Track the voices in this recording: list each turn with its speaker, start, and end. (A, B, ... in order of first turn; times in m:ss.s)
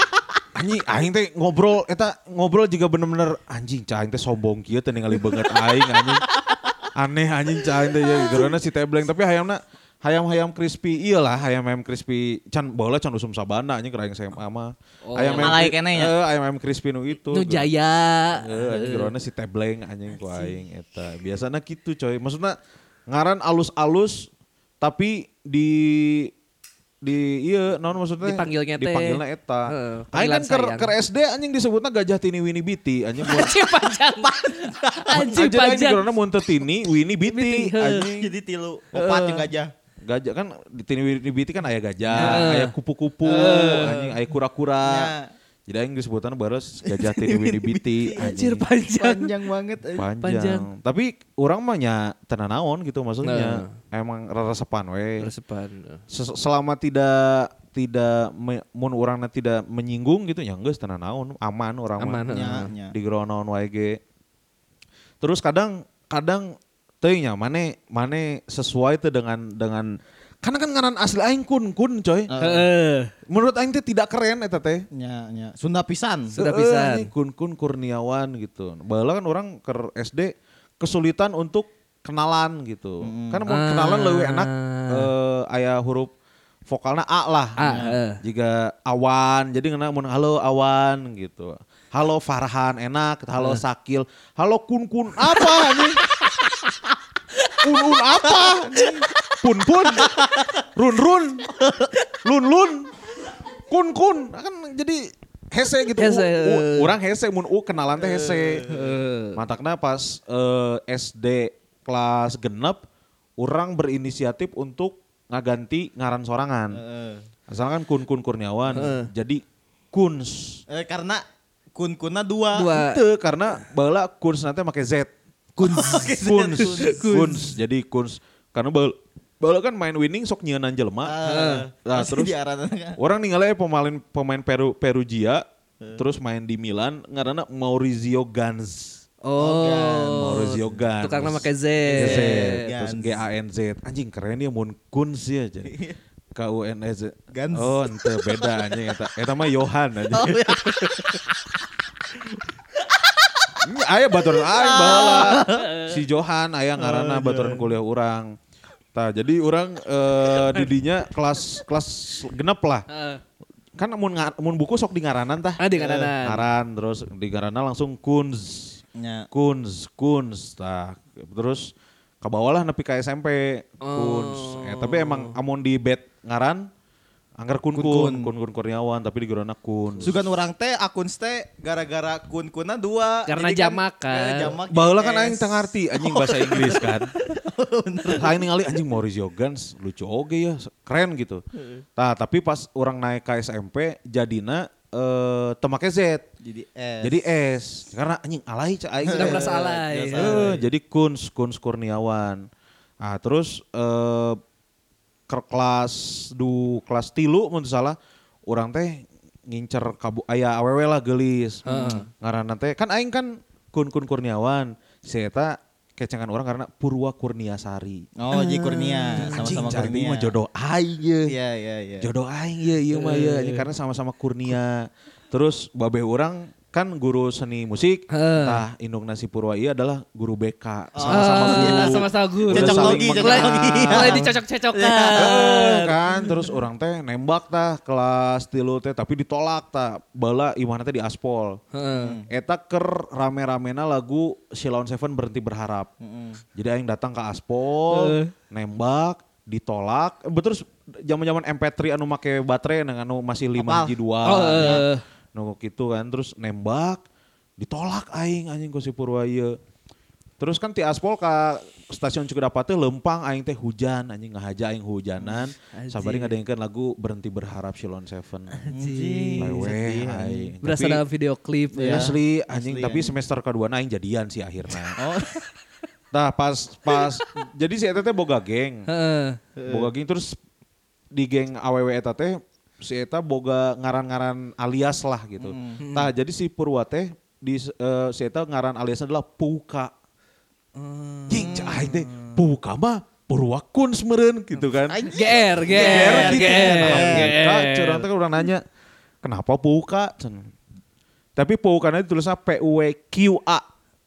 0:00.6-0:06.2 A
0:07.0-0:17.7 A
0:15.0-0:15.6 B
0:15.4-0:16.2 C
0:17.3-0:19.1 B
0:18.4-0:22.6 A
0:23.1-0:24.3 A
0:24.8-0:26.3 A
0:27.0-0:33.6 A
0:28.2-0:31.0 B
0:33.2-0:36.0 B
0:34.2-0:35.2 C
0:35.1-0:38.3 A
0:37.2-0:38.1 B
0:38.0-0:39.7 C
0:40.0-0:45.1 A
0:42.1-0:42.5 C
0:42.2-0:42.7 B
0:43.2-0:44.1 B
0:43.5-0:44.0 C
0:44.8-0:45.3 C
0:45.7-0:48.6 A
0:47.0-0:48.4 C
0:48.2-0:49.3 B
0:48.9-0:50.1 C
0:50.0-0:55.3 A
0:50.2-0:50.7 B
0:53.2-0:53.8 B
0:55.2-0:56.0 B
0:56.1-1:04.0 A
1:02.0-1:02.7 B
1:02.3-1:03.0 C
1:05.2-1:09.9 A
1:10.4-1:12.3 A
1:12.3-1:12.6 C
1:12.4-1:13.1 B
1:13.3-1:14.8 A
1:14.9-1:16.4 C
1:16.4-1:17.1 B
1:16.4-1:26.1 A
1:23.0-1:23.4 C
1:23.5-1:25.1 B
1:26.7-1:36.0 A
1:27.6-1:28.2 B
1:27.7-1:28.0 C
1:33.4-1:33.6 B
1:37.6-1:40.2 A
1:40.0-1:40.4 C
1:40.7-1:41.5 A
1:41.6-1:41.9 C
1:42.2-1:42.9 A
1:43.7-1:48.7 A
1:46.0-1:46.9 B
1:48.2-1:48.7 C
1:48.7-1:49.4 B
1:49.4-1:52.8 A
1:53.4-1:56.8 A
1:56.7-1:57.2 C
1:57.5-2:00.6 A
1:58.7-1:59.1 B
2:00.7-2:01.2 C
2:01.8-2:02.7 C
2:02.5-2:03.0 B
2:02.7-2:05.1 A
2:05.6-2:07.1 B
2:05.6-2:07.4 C
2:06.1-2:11.2 A
2:11.0-2:13.0 C
2:11.2-2:11.6 B
2:11.8-2:12.3 A
2:13.0-2:15.4 A
2:16.0-2:19.0 A
2:19.2-2:22.6 B
2:19.4-2:20.7 C
2:20.2-2:25.7 A
2:21.9-2:23.2 C
2:25.6-2:26.0 C
2:26.4-2:30.6 A
2:27.3-2:27.9 C
2:30.1-2:31.2 C
2:33.6-2:38.3 A
2:34.4-2:35.7 C
2:35.4-2:35.9 B
2:36.8-2:37.6 C
2:38.9-2:42.8 A
2:42.9-2:43.2 B
2:43.8-2:48.8 A
2:45.6-2:46.5 B
2:45.8-2:46.1 C
2:49.0-2:49.3 C
2:49.3-2:56.7 A
2:53.8-2:55.4 B
2:57.4-3:00.2 A
2:57.7-2:58.3 C
3:00.0-3:08.4 C
3:03.3-3:04.5 B
3:04.7-3:07.1 A
3:08.1-3:11.4 A
3:12.0-3:16.2 A
3:16.4-3:17.2 C
3:17.0-3:22.5 A
3:19.1-3:19.5 C
3:19.1-3:20.5 B
3:20.2-3:20.6 C
3:23.0-3:24.4 A
3:25.3-3:28.0 A
3:28.5-3:38.1 A
3:31.7-3:32.1 B
3:38.2-3:40.3 C
3:38.3-3:39.6 B
3:39.2-3:41.3 A
3:41.3-3:42.1 C
3:42.0-3:54.3 A
3:43.0-3:43.7 B
3:48.1-3:48.6 B
3:51.0-3:55.9 C
3:51.1-3:56.4 B
3:55.2-4:01.6 A
4:01.7-4:02.2 B
4:02.0-4:02.3 C
4:02.3-4:05.9 A
4:06.0-4:06.4 C
4:06.6-4:17.0 A
4:07.9-4:08.3 B
4:13.6-4:14.0 C
4:14.2-4:15.0 B
4:14.5-4:14.8 C
4:17.6-4:19.6 A
4:20.4-4:28.6 A
4:25.7-4:26.3 B
4:28.6-4:29.5 B
4:28.7-4:30.5 C
4:29.4-4:31.0 A
4:30.6-4:32.1 B
4:31.8-4:33.1 C
4:31.8-4:35.0 A
4:35.0-4:35.4 C
4:36.1-4:38.9 A
4:38.9-4:39.4 B
4:39.6-4:39.9 C
4:39.7-4:40.4 A
4:41.1-4:49.9 A
4:45.4-4:45.8 C
4:45.8-4:46.1 B
4:50.8-4:52.4 B
4:51.3-4:55.1 A
4:51.5-4:51.8 C
4:54.9-4:57.3 C
4:55.1-4:58.1 B
4:55.7-4:58.6 A
4:59.2-5:00.5 A
5:01.4-5:03.6 A